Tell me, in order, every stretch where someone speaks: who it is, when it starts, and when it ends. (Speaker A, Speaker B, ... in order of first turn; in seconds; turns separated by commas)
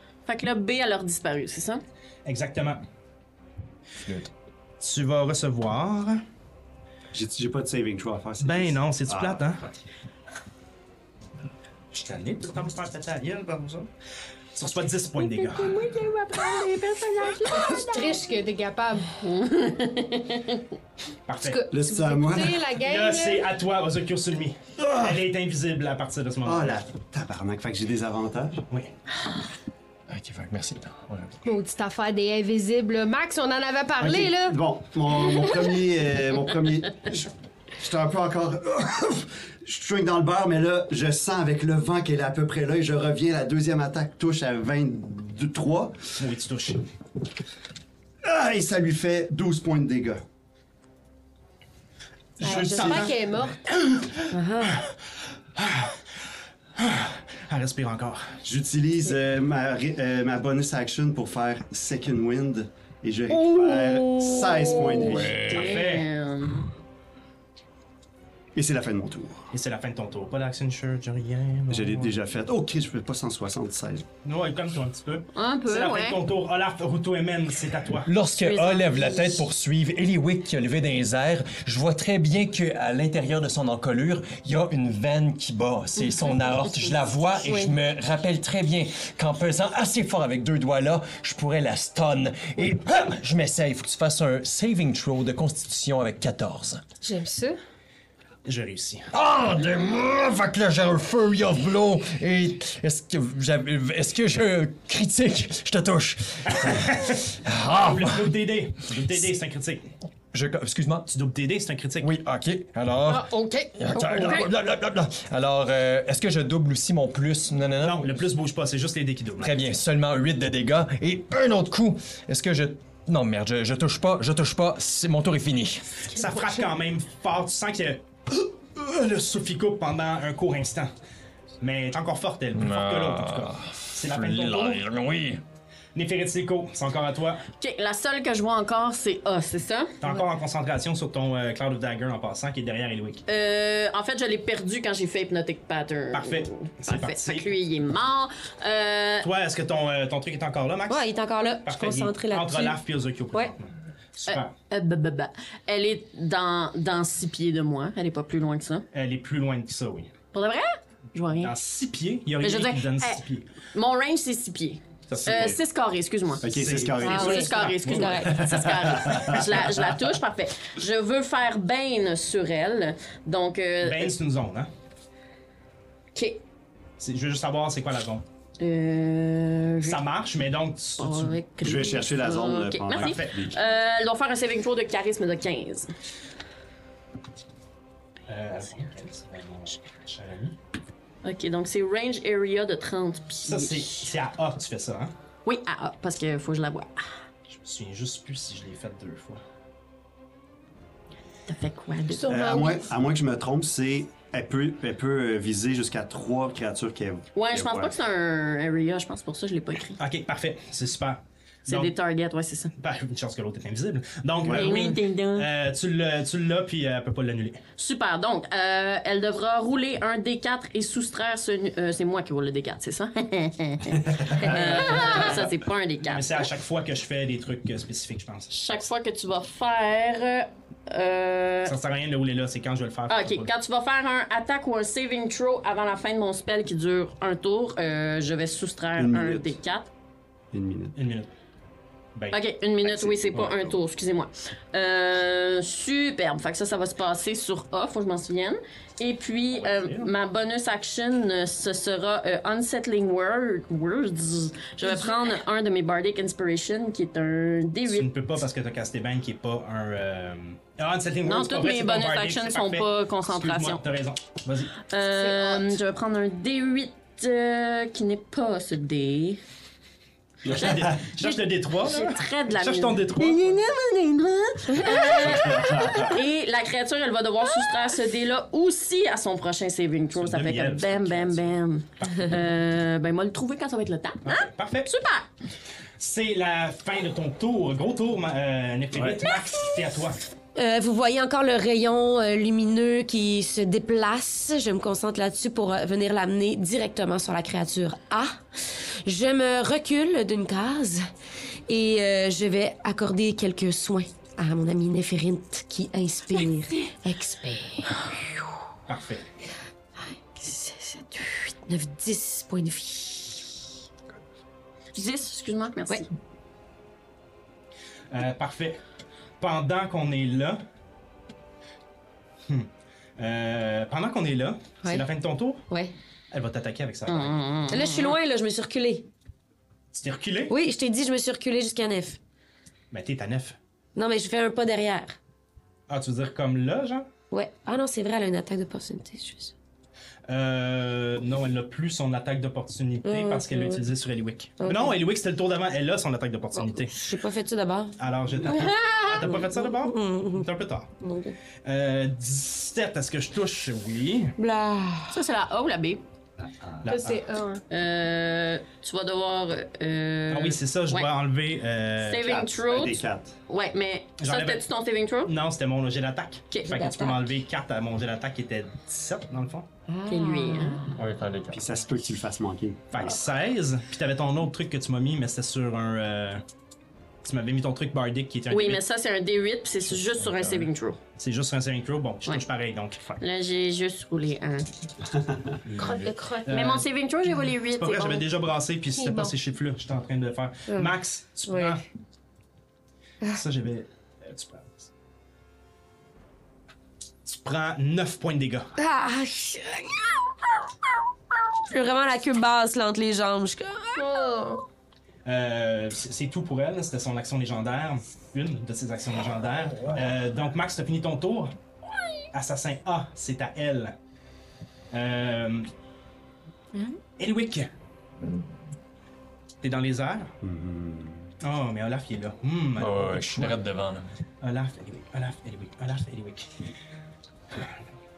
Speaker A: 0.2-1.8, Speaker B: 2.2-2.8, Speaker C: 4.0-4.3, Speaker B: 4.8-6.2, Speaker D: 7.1-9.5, Speaker B: 8.4-9.6, Speaker B: 11.9-13.9, Speaker B: 14.5-15.8, Speaker E: 15.2-19.1, Speaker F: 17.5-17.8, Speaker A: 19.2-20.7, Speaker B: 21.3-21.6, Speaker E: 21.4-23.5, Speaker D: 21.7-22.6, Speaker B: 22.6-26.8, Speaker D: 24.8-25.1, Speaker D: 26.4-28.6, Speaker C: 30.1-31.4, Speaker E: 31.4-34.6, Speaker D: 34.0-46.1, Speaker B: 46.1-46.8, Speaker D: 48.2-50.2, Speaker D: 52.4-53.1, Speaker E: 52.4-53.6, Speaker B: 52.4-54.9, Speaker F: 54.3-54.8, Speaker B: 55.5-56.0, Speaker B: 56.8-58.4, Speaker D: 58.4-65.6, Speaker F: 64.4-65.0, Speaker C: 65.0-65.8, Speaker A: 65.2-66.7, Speaker B: 65.4-66.1, Speaker D: 68.5-69.5, Speaker B: 69.5-72.1, Speaker D: 71.7-74.0, Speaker B: 74.2-78.1, Speaker A: 75.3-76.2, Speaker C: 78.0-96.8, Speaker A: 78.4-79.4, Speaker E: 87.5-87.7, Speaker E: 97.0-97.6, Speaker B: 98.4-99.1, Speaker C: 99.1-108.4, Speaker B: 106.5-109.9, Speaker C: 110.3-111.1, Speaker B: 111.1-112.1, Speaker C: 112.0-118.2, Speaker E: 113.0-114.5, Speaker B: 117.8-119.6, Speaker C: 119.4-126.0, Speaker B: 126.1-130.9, Speaker B: 131.6-134.8, Speaker C: 132.5-135.4, Speaker B: 135.9-137.4, Speaker A: 137.6-140.0, Speaker B: 140.0-143.2, Speaker A: 143.3-149.3, Speaker B: 146.1-147.5, Speaker B: 149.2-151.1, Speaker F: 150.9-152.8, Speaker B: 151.6-154.5, Speaker A: 154.3-158.8, Speaker B: 158.9-160.1, Speaker A: 160.3-161.5, Speaker B: 161.4-163.5, Speaker A: 162.4-163.2, Speaker A: 163.7-166.4, Speaker B: 165.1-165.6, Speaker D: 166.4-167.4, Speaker B: 166.4-169.3, Speaker A: 167.0-174.1, Speaker F: 167.0-168.4, Speaker D: 168.3-169.6, Speaker B: 173.8-174.7, Speaker A: 176.1-176.4, Speaker B: 177.0-178.2, Speaker A: 178.6-180.0, Speaker B: 179.8-181.4, Speaker A: 181.0-185.9, Speaker D: 181.6-183.6, Speaker B: 183.0-183.4, Speaker B: 188.3-190.6, Speaker A: 191.2-194.0, Speaker B: 193.4-195.1, Speaker A: 195.4-197.1, Speaker B: 197.5-199.4, Speaker A: 201.5-202.5, Speaker E: 202.1-202.9, Speaker D: 202.3-207.9, Speaker A: 207.3-210.0, Speaker B: 210.0-211.9, Speaker A: 211.7-212.7, Speaker B: 212.8-217.6, Speaker D: 214.4-214.7, Speaker A: 214.5-215.5, Speaker A: 217.8-226.5, Speaker D: 223.9-224.5, Speaker B: 224.4-228.5, Speaker A: 228.5-231.8, Speaker B: 231.7-233.5, Speaker A: 233.1-239.9, Speaker D: 238.9-239.6, Speaker D: 240.5-240.9, Speaker B: 240.9-241.3, Speaker A: 242.3-258.1, Speaker D: 242.8-243.8, Speaker B: 249.5-250.1, Speaker B: 257.9-264.8, Speaker A: 261.2-263.8, Speaker A: 264.9-269.4, Speaker E: 265.1-265.8, Speaker D: 270.4-270.9, Speaker B: 270.4-273.6, Speaker A: 270.5-285.3, Speaker F: 274.7-275.1, Speaker D: 275.0-276.1, Speaker B: 280.1-282.4, Speaker B: 284.2-284.9, Speaker B: 286.0-290.2, Speaker F: 290.5-301.0, Speaker F: 301.7-308.5, Speaker B: 308.9-309.2, Speaker F: 310.0-313.5, Speaker A: 314.9-316.1, Speaker B: 318.1-318.8, Speaker B: 319.4-320.6, Speaker B: 322.5-325.6, Speaker F: 325.7-325.9, Speaker B: 326.3-327.3, Speaker A: 327.1-328.1, Speaker F: 327.7-329.1, Speaker B: 329.9-330.5, Speaker F: 330.5-332.2, Speaker B: 332.9-333.6, Speaker F: 333.9-335.2, Speaker B: 335.9-337.1, Speaker F: 337.3-339.5, Speaker B: 340.3-347.0, Speaker F: 343.0-343.8, Speaker F: 344.6-345.0, Speaker F: 346.5-347.9, Speaker B: 348.0-350.9, Speaker F: 348.5-350.5, Speaker F: 351.0-351.4, Speaker B: 351.6-354.4, Speaker F: 354.4-355.2, Speaker A: 355.1-356.0, Speaker D: 356.6-356.9, Speaker B: 356.8-357.2, Speaker E: 356.9-357.6, Speaker A: 357.7-361.1, Speaker B: 360.3-362.3, Speaker A: 362.0-365.3, Speaker D: 362.2-363.3, Speaker B: 364.2-364.6, Speaker B: 365.2-369.7, Speaker F: 366.5-367.3, Speaker F: 369.9-371.0, Speaker A: 370.1-370.8, Speaker C: 371.0-371.6, Speaker D: 371.5-373.2, Speaker B: 372.9-376.4, Speaker B: 377.2-378.8, Speaker A: 378.5-381.0, Speaker B: 380.2-383.1, Speaker A: 383.2-384.7, Speaker D: 385.2-385.5, Speaker B: 385.6-386.8, Speaker E: 385.8-386.5, Speaker F: 385.9-386.3, Speaker A: 386.5-388.2, Speaker B: 387.8-391.8, Speaker E: 388.9-389.3, Speaker F: 391.4-391.8, Speaker B: 393.3-394.9, Speaker B: 397.2-398.7, Speaker F: 398.8-400.2, Speaker F: 401.7-404.5, Speaker E: 404.0-404.6, Speaker B: 405.2-411.5, Speaker B: 412.3-413.9, Speaker B: 414.9-415.7, Speaker B: 417.2-417.7, Speaker B: 419.6-420.3, Speaker D: 420.4-421.3, Speaker B: 421.4-423.6, Speaker C: 422.8-424.1, Speaker B: 424.4-426.5